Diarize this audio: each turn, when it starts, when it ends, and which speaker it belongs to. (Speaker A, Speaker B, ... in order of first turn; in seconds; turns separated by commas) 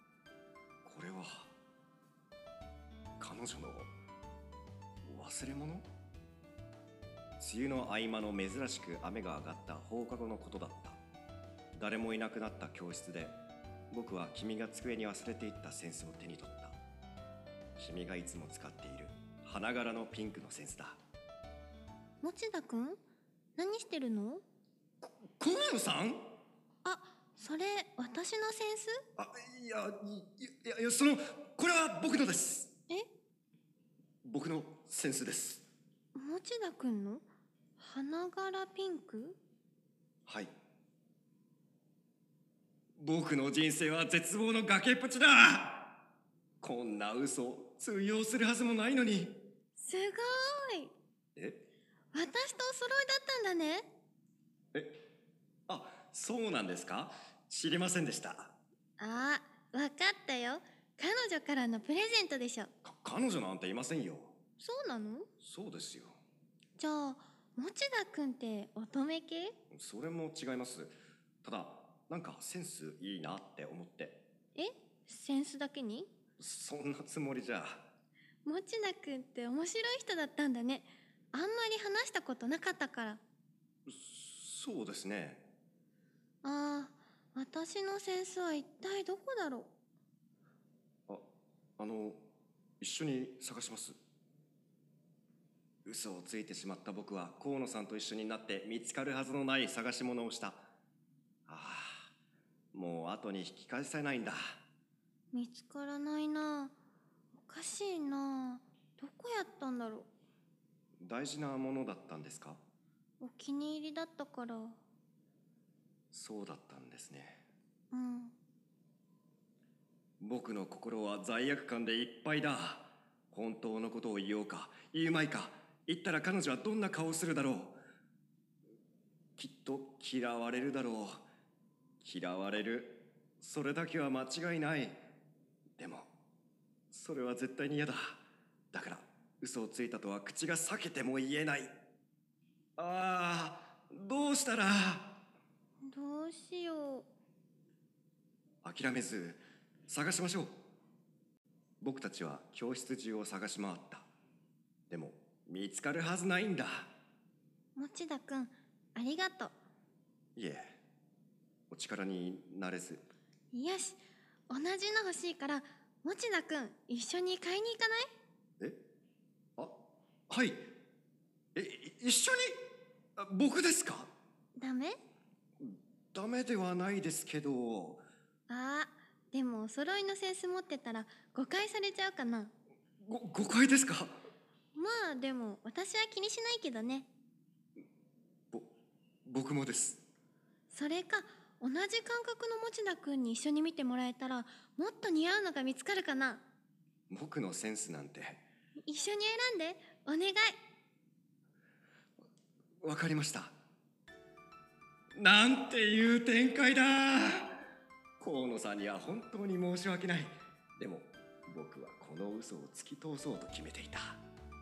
Speaker A: 0.8-1.5, Speaker A: 3.2-3.9, Speaker A: 5.0-5.8, Speaker A: 7.4-11.0, Speaker A: 11.8-13.3, Speaker A: 13.9-16.8, Speaker A: 17.8-21.0, Speaker B: 22.2-23.0, Speaker B: 23.6-24.4, Speaker A: 25.0-26.2, Speaker B: 26.8-29.0, Speaker A: 29.2-32.7, Speaker A: 34.2-35.7, Speaker B: 36.1-37.2, Speaker B: 37.8-39.4, Speaker A: 40.2-40.5, Speaker A: 43.0-46.0, Speaker A: 46.6-49.4, Speaker B: 49.8-50.9, Speaker A: 51.4-51.6, Speaker B: 52.1-53.9, Speaker A: 55.7-58.5, Speaker B: 59.0-62.7, Speaker A: 62.8-64.3, Speaker B: 64.6-65.3, Speaker A: 65.4-66.1, Speaker B: 66.8-69.5, Speaker A: 69.7-74.2, Speaker B: 74.5-76.1, Speaker A: 76.4-77.8, Speaker B: 78.4-83.2, Speaker A: 83.9-85.5, Speaker B: 86.4-89.7, Speaker A: 91.8-92.2, Speaker A: 92.8-94.0, Speaker A: 95.8-100.7, Speaker A: 101.5-102.1, Speaker A: 102.7-104.4, Speaker B: 105.3-106.8, Speaker B: 107.3-110.1, Speaker A: 111.0-112.6, Speaker B: 113.2-114.8, Speaker A: 116.1-117.4, Speaker B: 117.9-118.3, Speaker A: 120.2-127.8, Speaker A: 129.4-131.2, Speaker A: 132.0-135.0, Speaker A: 135.8-136.1, Speaker A: 136.9-141.7, Speaker A: 142.8-145.2, Speaker B: 145.8-147.1, Speaker A: 148.6-150.6, Speaker A: 151.8-154.1, Speaker A: 154.9-156.9, Speaker B: 157.7-159.6, Speaker A: 160.3-160.6, Speaker A: 161.7-163.0, Speaker B: 163.5-168.1, Speaker A: 170.3-170.6, Speaker A: 171.5-172.6, Speaker A: 173.2-174.1, Speaker B: 174.6-175.0, Speaker A: 175.6-178.0, Speaker B: 178.5-182.5, Speaker A: 183.0-184.2, Speaker B: 184.7-187.1, Speaker A: 189.2-190.0, Speaker B: 190.7-196.4, Speaker A: 197.1-198.4, Speaker B: 198.8-200.5, Speaker A: 202.8-203.5, Speaker A: 205.2-207.5, Speaker A: 208.2-214.2